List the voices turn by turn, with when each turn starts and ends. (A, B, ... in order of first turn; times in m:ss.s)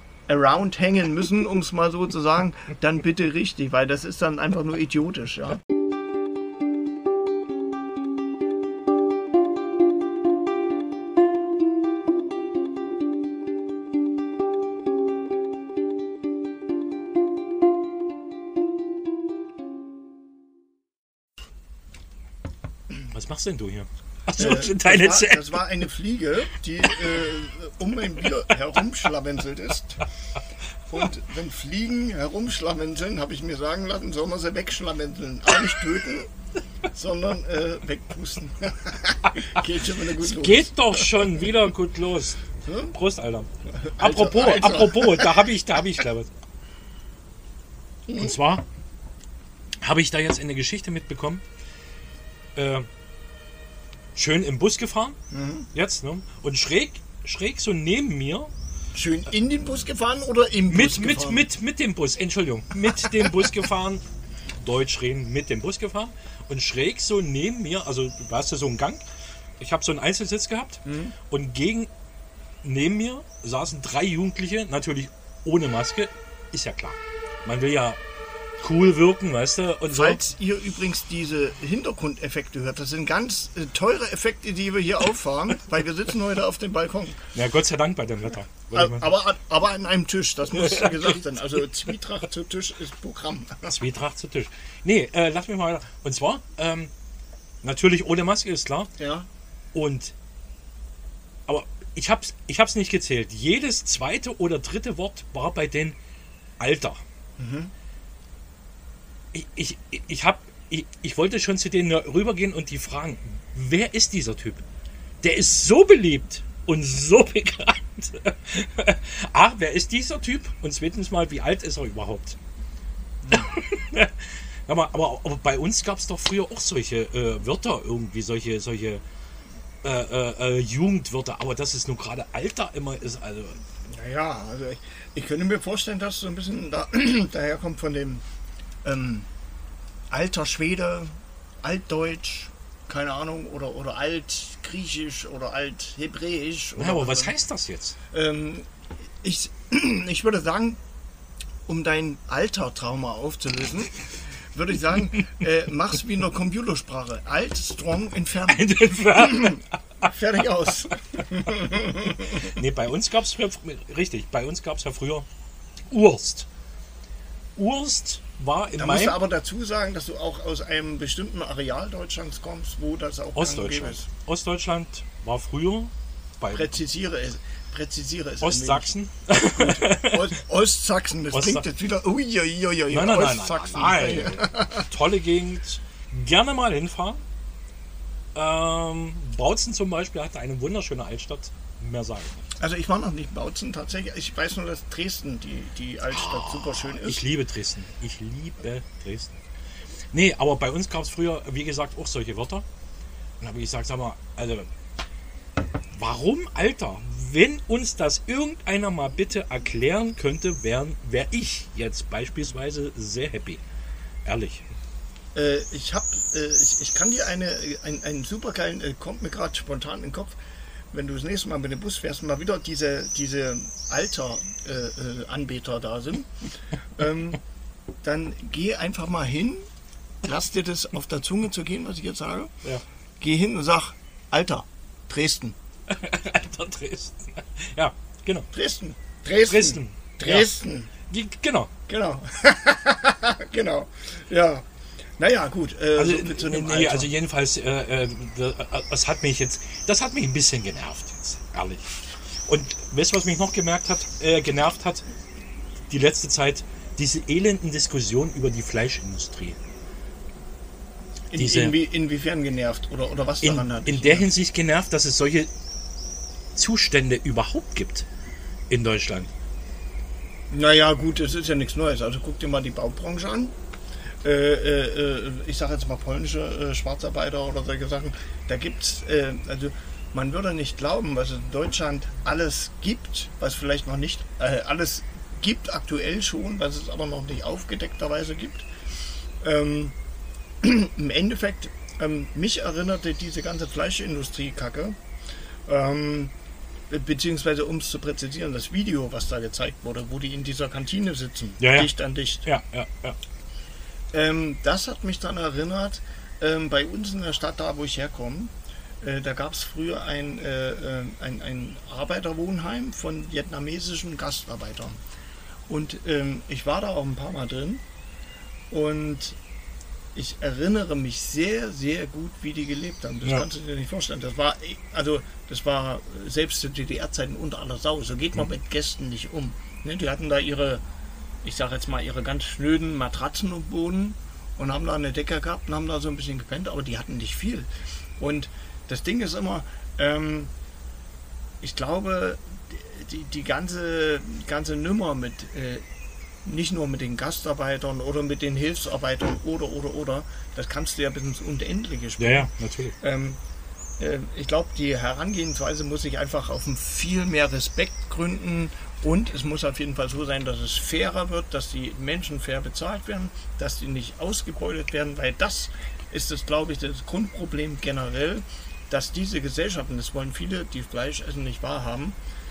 0:00.3-0:05.6 A
0:23.1-0:25.6 B
0:24.3-0:30.1 A
0:30.9-0:36.3 A
0:36.9-0:41.5 A
0:40.2-0:46.3 B
0:42.6-0:42.9 A
0:43.6-0:45.5 A
0:48.1-0:48.4 A
0:48.2-0:48.6 B
0:49.8-0:51.4 B
0:52.5-0:52.8 B
0:54.1-0:55.2 B
0:55.3-0:55.7 A
0:55.7-0:58.5 B
0:58.9-1:01.5 A
1:00.7-1:04.0 B
1:03.0-1:03.5 A
1:04.6-1:09.0 B
1:09.6-1:11.9 B
1:10.8-1:11.1 A
1:12.6-1:18.0 B
1:18.6-1:20.2 B
1:19.9-1:27.2 A
1:27.3-1:29.1 B
1:28.7-1:33.8 A
1:30.5-1:31.2 B
1:33.6-1:36.9 B
1:37.6-1:38.9 B
1:39.0-1:39.3 A
1:39.7-1:40.1 B
1:41.5-1:46.0 B
1:46.6-1:47.0 B
1:47.4-1:47.7 A
1:49.3-1:54.6 B
1:55.2-2:02.4 B
2:03.3-2:09.0 B
2:09.8-2:13.6 B
2:13.9-2:18.2 A
2:18.8-2:19.3 A
2:20.1-2:21.1 A
2:21.6-2:27.3 A
2:26.8-2:28.0 B
2:28.1-2:28.7 A
2:29.2-2:30.8 A
2:31.7-2:42.6 A
2:38.5-2:40.1 B
2:42.3-2:45.3 B
2:45.9-2:46.5 B
2:47.6-2:49.2 B
2:48.7-2:54.0 A
2:53.4-2:56.8 B
2:56.5-3:04.9 A
2:58.4-3:00.3 B
3:01.3-3:01.6 B
3:02.9-3:07.2 B
3:08.3-3:12.4 B
3:12.6-3:17.2 A
3:16.1-3:19.4 B
3:20.1-3:22.6 B
3:23.4-3:24.7 B
3:25.9-3:33.6 B
3:34.2-3:34.6 B
3:35.3-3:40.4 A
3:40.9-3:47.4 A
3:48.0-3:49.6 A
3:50.2-3:52.5 A
3:53.2-3:55.6 A
3:55.9-3:58.5 B
3:58.5-4:00.9 A
3:59.4-4:00.6 B
4:01.1-4:01.7 B
4:01.9-4:04.6 A
4:05.2-4:07.1 A
4:06.0-4:15.0 B
4:15.9-4:19.6 B
4:21.3-4:24.3 A
4:21.4-4:21.8 B
4:23.4-4:25.5 B
4:26.5-4:28.1 B
4:28.7-4:29.3 B
4:30.5-4:33.5 A
4:34.2-4:48.7 A
4:49.4-4:49.9 A
4:50.6-4:55.0 A
4:55.7-4:56.3 A
4:56.9-5:02.4 A
5:01.6-5:01.9 B
5:02.4-5:03.2 B
5:04.1-5:15.0 A
5:15.7-5:17.8 A
5:18.7-5:19.4 A
5:20.1-5:30.8 A
5:31.4-5:40.5 A
5:41.6-5:45.8 A
5:46.4-5:53.4 A
5:52.2-5:52.9 B
5:54.0-6:12.2 A